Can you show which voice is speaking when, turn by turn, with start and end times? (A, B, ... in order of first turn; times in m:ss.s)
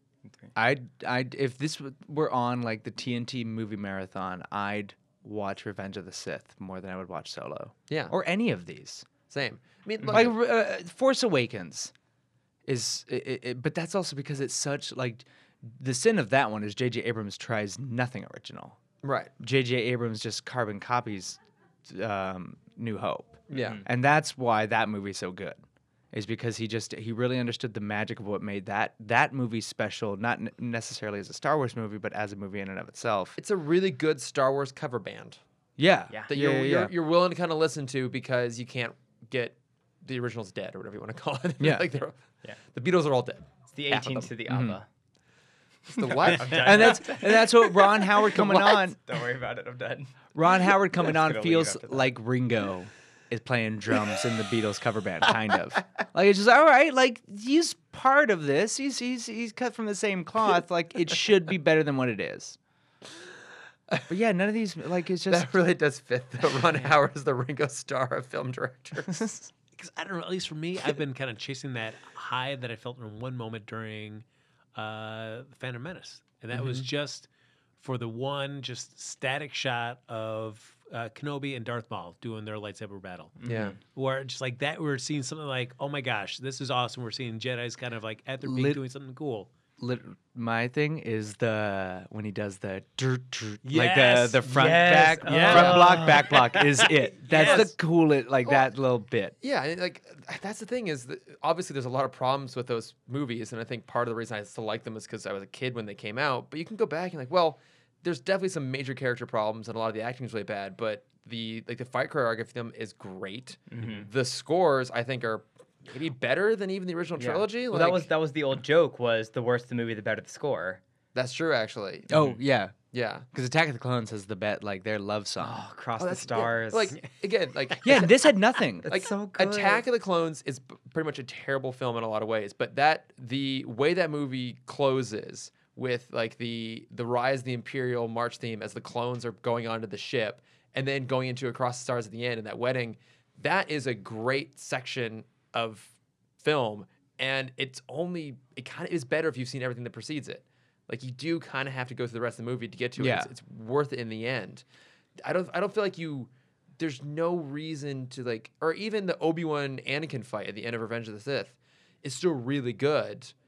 0:00.6-0:09.1 A
0:07.9-0:08.1 B
0:09.3-0:10.3 B
0:10.1-0:11.9 A
0:12.6-0:18.8 A
0:19.0-0:19.3 B
0:19.4-0:25.6 A
0:23.5-0:23.8 B
0:23.5-0:23.8 C
0:26.1-0:33.4 A
0:33.4-0:35.4 B
0:35.8-0:36.9 A
0:36.3-0:44.3 B
0:41.6-0:41.9 A
0:43.7-0:44.9 C
0:44.5-0:44.8 A
0:45.9-0:47.2 B
0:46.0-0:47.5 C
0:46.4-0:49.0 A
0:48.3-0:48.6 B
0:48.4-0:50.2 C
0:50.3-1:02.6 A
0:51.0-0:52.1 C
1:04.1-1:05.5 A
1:05.3-1:09.3 B
1:09.1-1:09.4 A
1:09.8-1:17.3 D
1:16.5-1:16.8 B
1:17.8-1:29.5 D
1:23.4-1:23.8 C
1:23.4-1:23.8 B
1:28.4-1:28.8 A
1:29.8-1:39.3 A
1:33.6-1:37.7 D
1:34.5-1:36.4 C
1:37.3-1:37.7 B
1:39.4-1:58.1 B
1:53.7-1:54.1 C
1:57.2-2:00.8 C
2:01.1-2:02.2 B
2:02.1-2:02.7 A
2:02.9-2:03.2 B
2:03.3-2:05.6 A
2:05.4-2:07.0 C
2:06.0-2:08.3 B
2:07.8-2:08.9 A
2:08.8-2:09.8 C
2:08.8-2:34.6 B
2:33.0-2:33.3 A
2:35.2-2:43.3 B